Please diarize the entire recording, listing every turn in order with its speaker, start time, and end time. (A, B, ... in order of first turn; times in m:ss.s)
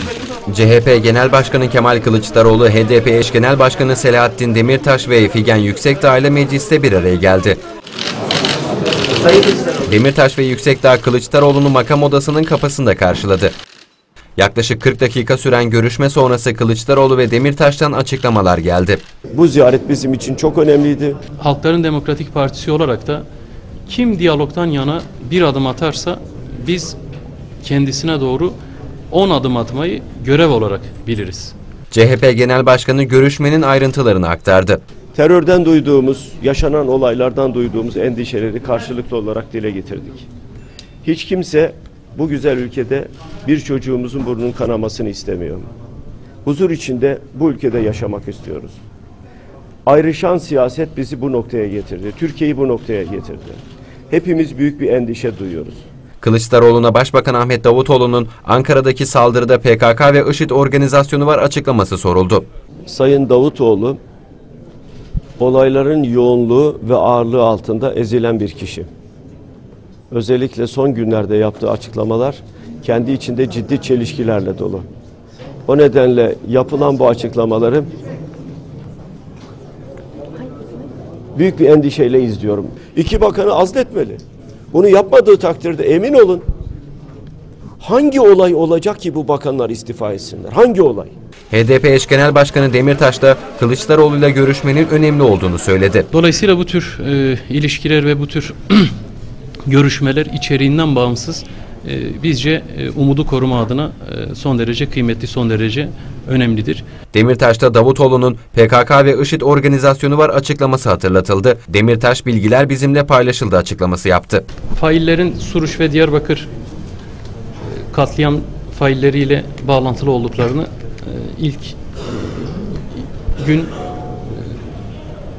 0:00.5-0:07.6 A
0:09.8-0:13.5 A
0:14.4-0:19.0 A
0:19.3-0:21.2 B
0:21.4-0:23.2 C
0:23.9-0:27.0 C
0:27.6-0:28.6 C
0:29.1-0:31.6 C
0:31.9-0:34.8 A
0:35.2-0:40.3 B
0:41.0-0:45.7 B
0:46.4-0:48.8 B
0:49.9-0:55.8 B
0:56.2-1:02.5 A
1:02.9-1:04.0 B
1:05.4-1:08.9 B
1:10.1-1:14.9 B
1:15.7-1:17.9 B
1:21.4-1:24.2 B
1:24.7-1:26.4 B
1:27.8-1:31.1 B
1:31.5-1:36.1 A
1:36.1-1:39.0 C
1:39.7-1:46.8 C
1:47.1-1:54.4 A
1:54.7-1:56.5 C
1:57.9-2:03.8 C